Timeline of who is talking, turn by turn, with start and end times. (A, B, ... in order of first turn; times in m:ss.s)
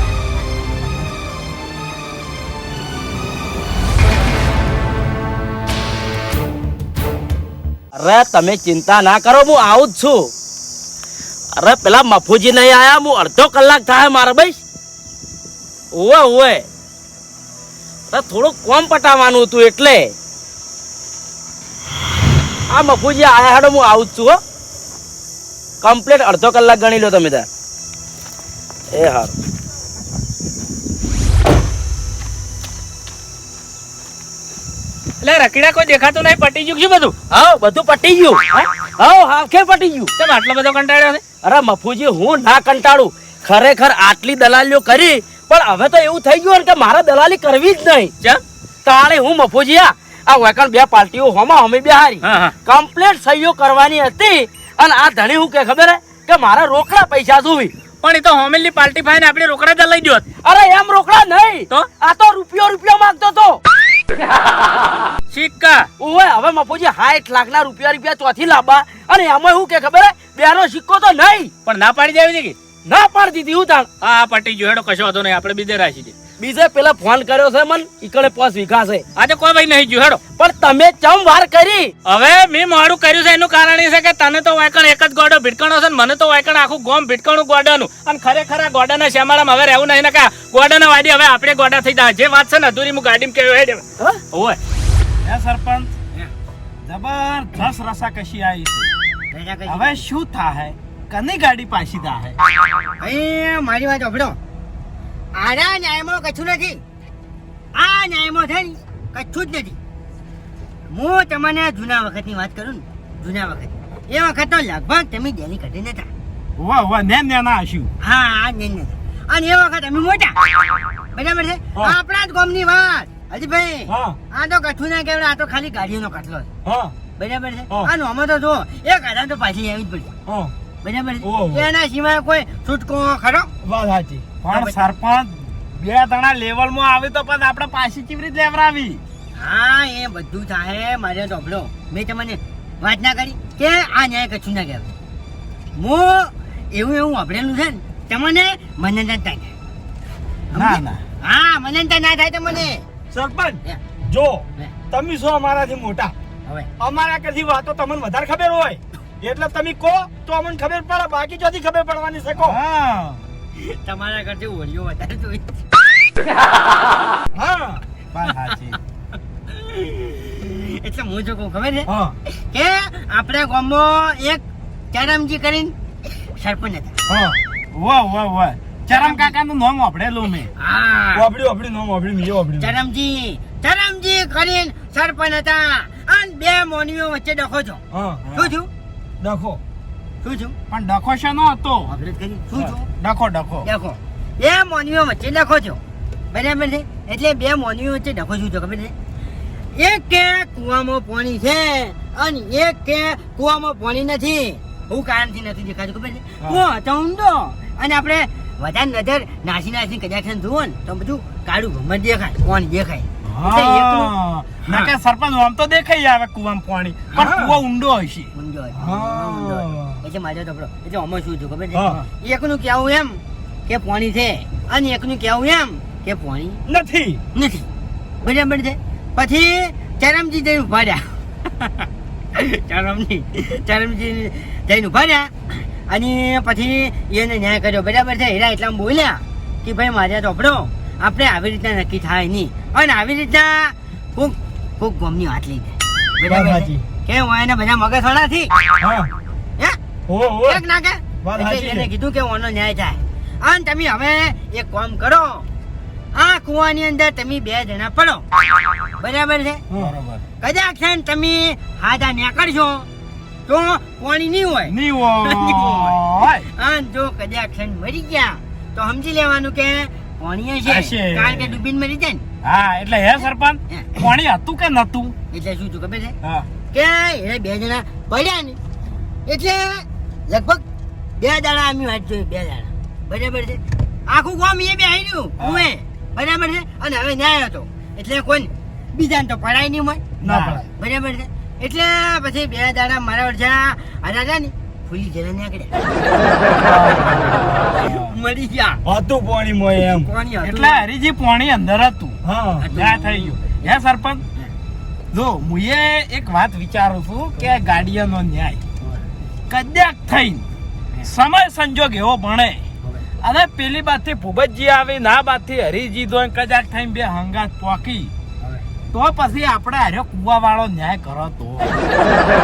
0:08.0-0:10.3 A
0:11.6-0:14.6 A
0:15.9-0:16.7 A
0:18.1-0:20.1 A
0:22.7-0:24.4 A
0:25.8-0:27.5 A
0:28.9-0:29.4 A
0:35.2-0:37.1 B
0:37.3-0:40.1 A
0:40.2-0:41.2 B
0:41.4-0:48.1 A
0:48.8-0:57.7 A
0:52.2-0:52.5 B
0:58.0-1:00.2 B
1:00.4-1:03.6 A
1:05.3-1:05.9 B
1:06.0-1:11.5 A
1:11.7-1:12.6 B
1:12.9-1:13.9 A
1:14.0-1:16.1 B
1:16.4-1:19.0 A
1:19.2-1:20.2 B
1:20.4-1:21.9 A
1:22.1-1:34.6 B
1:35.2-1:35.9 C
1:36.8-1:38.9 C
1:39.3-1:40.0 D
1:39.7-1:42.4 C
1:43.0-1:44.4 D
1:45.4-1:46.8 D
1:47.8-1:49.8 D
1:50.9-1:56.1 D
1:56.6-1:57.9 C
1:58.0-2:00.4 D
2:01.2-2:06.5 D
2:03.9-2:04.2 C
2:06.7-2:06.9 C
2:07.2-2:10.1 D
2:10.3-2:10.5 C
2:10.8-2:13.5 D
2:11.2-2:11.6 C
2:13.6-2:19.0 C
2:14.5-2:14.8 D
2:19.4-2:24.9 D
2:25.8-2:29.5 D
2:30.5-2:32.8 D
2:30.5-2:31.0 C
2:33.1-2:33.6 C
2:34.1-2:36.1 C
2:36.8-2:43.2 C
2:43.6-2:45.6 D
2:47.4-2:48.8 C
2:49.5-2:51.9 D
2:52.5-2:55.7 D
2:56.4-2:57.0 D
2:57.1-3:00.5 C
2:58.9-2:59.3 D
3:00.6-3:01.3 D
3:01.2-3:02.7 C
3:02.6-3:07.8 D
3:07.9-3:08.5 C
3:08.3-3:08.7 D
3:09.2-3:09.6 C
3:10.2-3:10.6 D
3:10.7-3:11.9 C
3:11.9-3:12.9 D
3:12.6-3:13.7 C
3:13.6-3:15.8 D
3:16.3-3:18.9 D
3:19.8-3:34.1 D
3:33.3-3:40.0 C
3:34.6-3:34.9 D
3:37.1-3:37.5 D
3:38.3-3:46.6 D
3:41.8-3:42.0 C
3:46.7-3:47.2 C
3:47.4-3:47.7 D
3:48.2-3:51.0 D
3:52.4-3:55.3 D
3:55.9-4:08.5 D
4:06.3-4:06.8 C
4:08.8-4:09.1 C
4:10.1-4:10.6 C
4:10.4-4:15.4 D
4:11.2-4:11.9 C
4:16.2-4:18.2 D
4:19.0-4:19.6 D
4:19.7-4:20.2 C
4:20.4-4:22.9 D
4:23.5-4:26.0 D
4:24.7-4:26.5 C
4:26.5-4:32.2 D
4:30.7-4:31.6 C
4:32.4-4:35.2 C
4:35.3-4:36.2 D
4:36.7-4:38.6 D
4:39.3-4:40.6 D
4:41.2-4:55.7 D
4:45.4-4:45.7 C
4:50.2-4:50.7 C
4:56.5-4:58.1 C
4:57.4-4:58.8 D
4:58.9-5:04.2 C
4:59.8-5:00.8 D
5:02.6-5:03.8 D
5:05.1-5:08.6 C
5:09.5-5:10.5 C
5:11.0-5:12.6 C
5:13.2-5:18.1 C
5:18.9-5:21.8 C